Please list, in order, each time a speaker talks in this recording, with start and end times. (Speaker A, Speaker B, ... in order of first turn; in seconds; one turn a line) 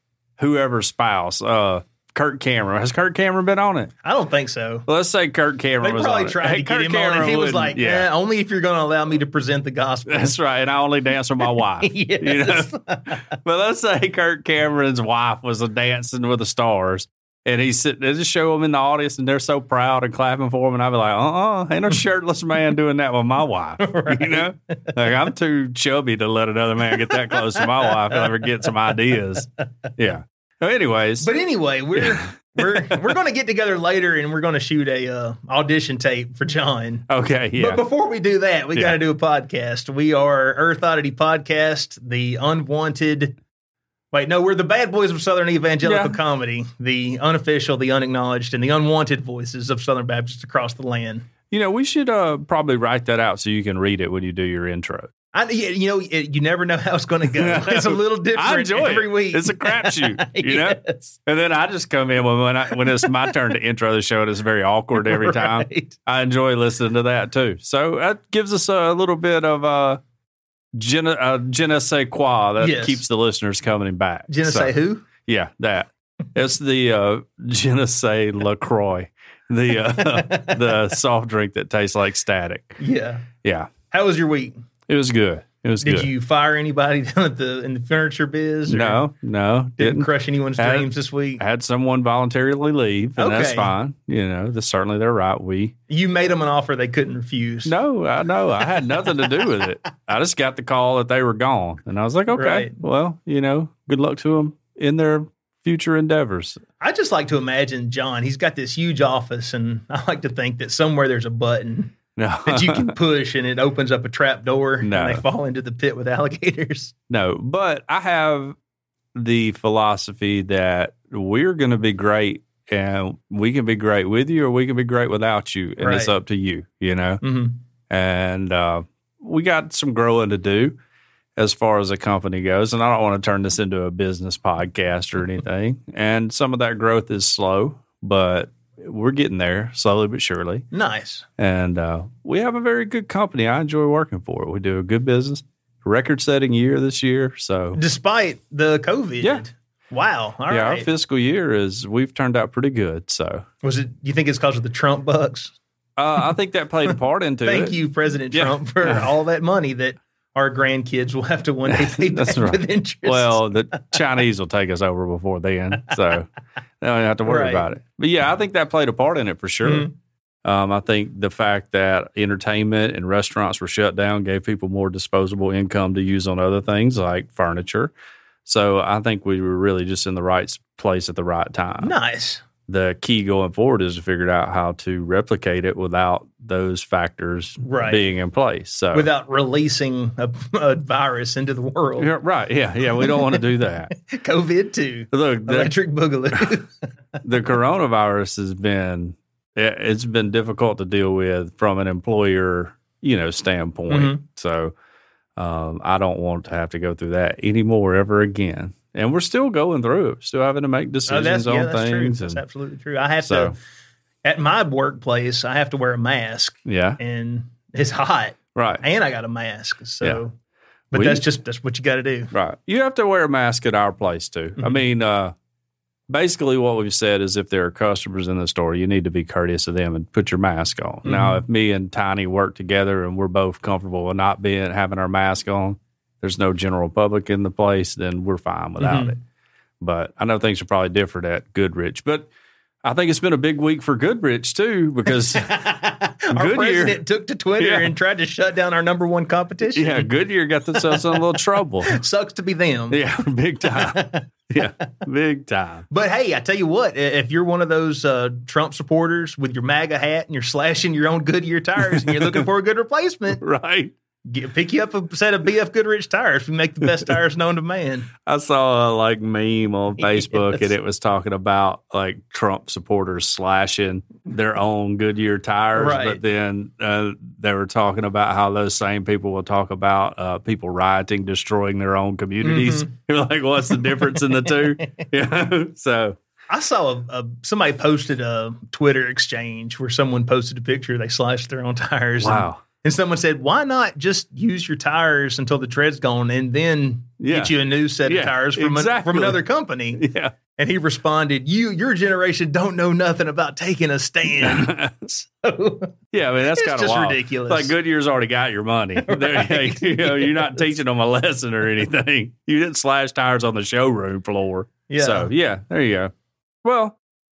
Speaker A: 0.4-3.9
Speaker B: 4.0-4.8
Speaker A: 4.9-8.1
Speaker B: 5.8-10.3
Speaker A: 10.1-31.3
Speaker B: 11.5-13.2
Speaker B: 23.8-24.9
Speaker B: 26.9-28.3
Speaker B: 31.2-43.4
Speaker A: 32.0-33.0
Speaker A: 37.1-37.8
Speaker B: 44.1-51.3
Speaker A: 45.8-46.2
Speaker A: 51.5-55.1
Speaker B: 55.3-61.2
Speaker A: 57.4-70.0
Speaker B: 62.8-63.3
Speaker B: 65.0-66.0
Speaker A: 70.7-82.8
Speaker B: 72.6-73.0
Speaker B: 74.3-75.1
Speaker B: 79.9-80.9
Speaker B: 82.8-83.3
Speaker A: 83.4-83.7
Speaker B: 83.9-84.6
Speaker A: 84.9-86.1
Speaker B: 85.8-89.0
Speaker A: 88.7-95.8
Speaker B: 89.8-91.4
Speaker B: 93.2-93.7
Speaker B: 95.9-97.8
Speaker A: 97.7-106.6
Speaker B: 102.3-102.8
Speaker B: 106.8-116.9
Speaker A: 112.2-112.9
Speaker A: 114.8-115.2
Speaker A: 117.1-118.6
Speaker A: 119.2-127.2
Speaker B: 125.8-126.2
Speaker B: 127.2-127.6
Speaker A: 127.9-130.8
Speaker A: 131.4-140.7
Speaker B: 140.7-141.3
Speaker A: 141.4-147.8
Speaker B: 147.8-150.9
Speaker A: 150.5-153.4
Speaker B: 153.6-155.6
Speaker A: 156.0-157.8
Speaker B: 157.4-163.8
Speaker A: 158.3-159.1
Speaker A: 161.8-166.3
Speaker A: 166.8-169.9
Speaker B: 167.2-167.7
Speaker B: 169.6-169.9
Speaker A: 170.4-177.9
Speaker A: 178.4-181.9
Speaker B: 181.8-182.4
Speaker A: 182.7-189.1
Speaker B: 187.6-188.1
Speaker B: 188.9-192.1
Speaker A: 192.0-193.9
Speaker B: 193.0-193.4
Speaker B: 194.0-197.2
Speaker A: 195.1-195.7
Speaker A: 197.2-204.7
Speaker B: 203.9-204.2
Speaker A: 205.4-212.4
Speaker B: 211.1-213.6
Speaker A: 213.2-213.6
Speaker B: 214.2-220.3
Speaker A: 216.7-217.0
Speaker A: 218.6-218.8
Speaker B: 220.9-222.3
Speaker A: 220.9-221.2
Speaker A: 222.3-225.3
Speaker A: 226.1-239.2
Speaker B: 231.1-231.4
Speaker B: 238.8-239.1
Speaker A: 239.8-242.3
Speaker A: 242.8-245.6
Speaker B: 245.3-250.1
Speaker A: 246.3-247.0
Speaker A: 247.6-247.9
Speaker A: 249.8-252.0
Speaker B: 250.7-253.0
Speaker A: 252.9-255.9
Speaker B: 253.6-254.2
Speaker B: 255.9-263.4
Speaker A: 261.8-262.5
Speaker A: 263.4-263.9
Speaker B: 264.3-268.1
Speaker A: 268.3-286.2
Speaker B: 270.0-270.7
Speaker B: 275.8-276.2
Speaker B: 282.4-282.9
Speaker B: 283.7-284.9
Speaker B: 286.5-300.0
Speaker A: 292.2-292.6
Speaker A: 297.2-299.4
Speaker A: 300.0-300.3
Speaker B: 300.6-305.9
Speaker A: 304.4-305.1
Speaker A: 306.1-316.1
Speaker B: 306.5-307.7
Speaker B: 309.1-310.7
Speaker B: 314.9-315.3
Speaker A: 316.6-317.0